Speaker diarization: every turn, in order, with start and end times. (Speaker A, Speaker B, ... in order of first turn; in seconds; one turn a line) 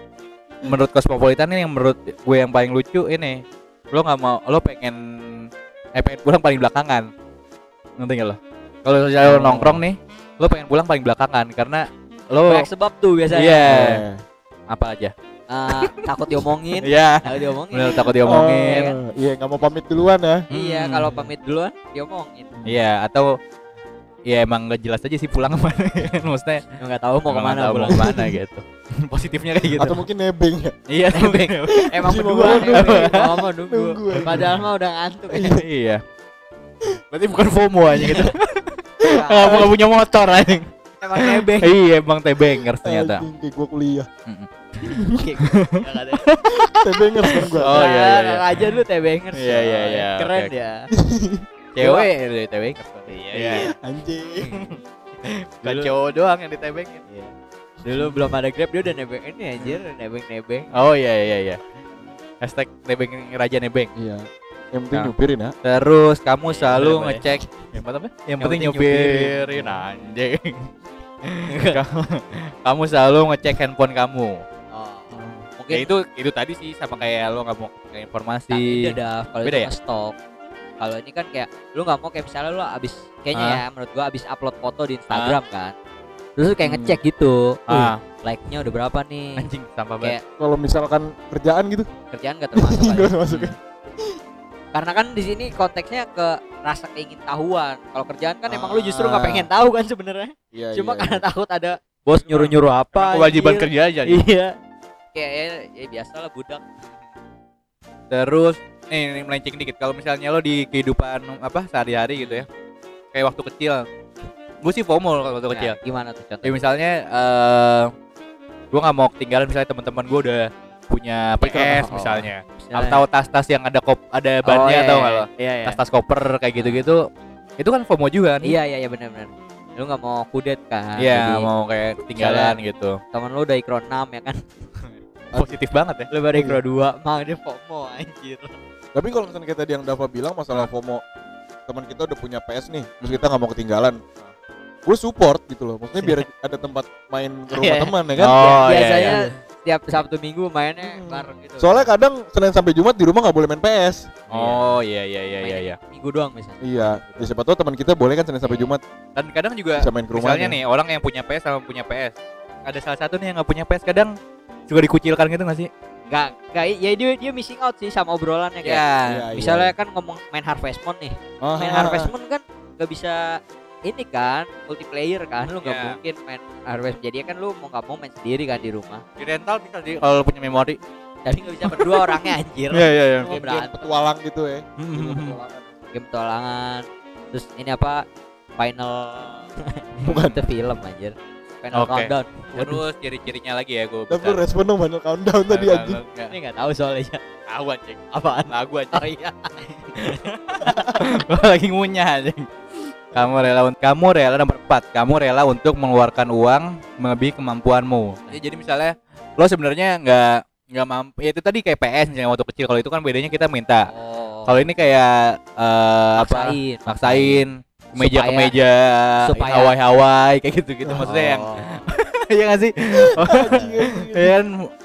Speaker A: 0.6-7.1
Speaker A: 8.0-12.7
Speaker B: 9.2-9.8
Speaker C: 12.5-13.9
Speaker A: 13.3-14.0
Speaker B: 13.7-14.2
Speaker A: 14.7-15.1
Speaker C: 15.5-19.0
Speaker A: 15.7-16.1
Speaker A: 16.8-18.9
Speaker B: 18.2-20.5
Speaker A: 20.5-21.3
Speaker C: 20.5-22.5
Speaker A: 22.7-23.3
Speaker A: 24.3-26.6
Speaker C: 26.8-28.1
Speaker A: 27.3-30.0
Speaker B: 27.9-28.3
Speaker B: 29.8-30.8
Speaker A: 30.9-33.4
Speaker C: 31.1-35.5
Speaker B: 31.9-34.5
Speaker B: 35.3-35.6
Speaker A: 35.4-36.0
Speaker A: 37.1-43.3
Speaker B: 38.0-38.3
Speaker C: 39.0-39.7
Speaker C: 41.0-41.7
Speaker B: 42.8-44.1
Speaker B: 44.9-45.2
Speaker C: 45.1-46.2
Speaker A: 45.4-46.7
Speaker B: 46.6-47.8
Speaker C: 47.3-50.9
Speaker A: 47.4-48.7
Speaker A: 49.3-50.5
Speaker B: 50.9-51.5
Speaker A: 51.8-53.7
Speaker C: 51.8-52.1
Speaker C: 53.1-53.7
Speaker B: 53.8-54.6
Speaker A: 54.5-57.0
Speaker C: 55.6-55.9
Speaker C: 57.1-60.7
Speaker A: 57.9-58.2
Speaker A: 60.7-61.6
Speaker A: 62.4-63.9
Speaker B: 64.0-65.5
Speaker A: 65.6-70.7
Speaker C: 66.4-67.2
Speaker C: 68.4-69.5
Speaker A: 71.2-74.4
Speaker C: 71.5-71.8
Speaker C: 74.7-75.9
Speaker B: 75.1-75.4
Speaker A: 75.7-79.7
Speaker C: 78.5-80.2
Speaker C: 80.8-85.8
Speaker A: 83.3-83.6
Speaker A: 85.1-85.4
Speaker C: 86.4-87.6
Speaker B: 86.7-87.0
Speaker A: 87.7-88.0
Speaker C: 88.2-89.5
Speaker A: 89.4-90.2
Speaker B: 90.4-91.9
Speaker C: 92.1-93.2
Speaker B: 92.5-94.2
Speaker A: 93.3-93.5
Speaker C: 94.7-104.5
Speaker B: 98.5-99.5
Speaker B: 100.5-101.2
Speaker A: 102.2-104.2
Speaker C: 105.1-106.6
Speaker A: 108.1-112.5
Speaker C: 112.2-112.5
Speaker A: 113.1-113.8
Speaker A: 114.6-115.8
Speaker C: 115.5-116.5
Speaker A: 116.4-117.9
Speaker A: 118.7-127.0
Speaker C: 121.4-123.0
Speaker C: 124.5-125.8
Speaker C: 126.6-126.8
Speaker A: 127.6-128.6
Speaker C: 128.4-131.5
Speaker A: 131.0-133.0
Speaker C: 132.2-132.6
Speaker C: 133.1-134.4
Speaker A: 135.3-136.1
Speaker C: 136.1-138.5
Speaker B: 136.3-136.6
Speaker B: 138.9-141.0
Speaker B: 141.7-144.0
Speaker B: 144.9-149.1
Speaker C: 147.5-151.9
Speaker A: 148.2-149.2
Speaker B: 150.9-154.2
Speaker C: 154.3-154.8
Speaker A: 154.3-155.8
Speaker C: 155.4-157.3
Speaker B: 156.6-158.8
Speaker C: 158.4-158.7
Speaker A: 159.2-162.2
Speaker B: 159.8-160.6
Speaker A: 162.7-164.1
Speaker A: 164.7-165.7
Speaker C: 166.1-168.8
Speaker A: 168.6-169.2
Speaker B: 169.1-169.7
Speaker C: 169.3-179.0
Speaker B: 171.4-172.1
Speaker A: 175.6-176.0
Speaker A: 179.2-180.8
Speaker C: 181.2-184.0
Speaker A: 181.7-183.3
Speaker B: 183.2-185.7
Speaker A: 184.8-185.4
Speaker C: 185.9-188.0
Speaker C: 188.6-192.8
Speaker A: 190.0-190.4
Speaker A: 191.7-194.4
Speaker B: 194.1-196.0
Speaker A: 195.5-196.3
Speaker C: 196.3-197.2
Speaker A: 197.5-199.1
Speaker C: 198.1-201.0
Speaker A: 200.0-213.9
Speaker C: 213.9-214.6
Speaker A: 214.5-224.5
Speaker C: 216.2-217.4
Speaker C: 218.0-218.5
Speaker C: 219.2-219.7
Speaker B: 220.9-221.1
Speaker C: 221.0-221.8
Speaker B: 222.9-224.4
Speaker C: 223.4-223.7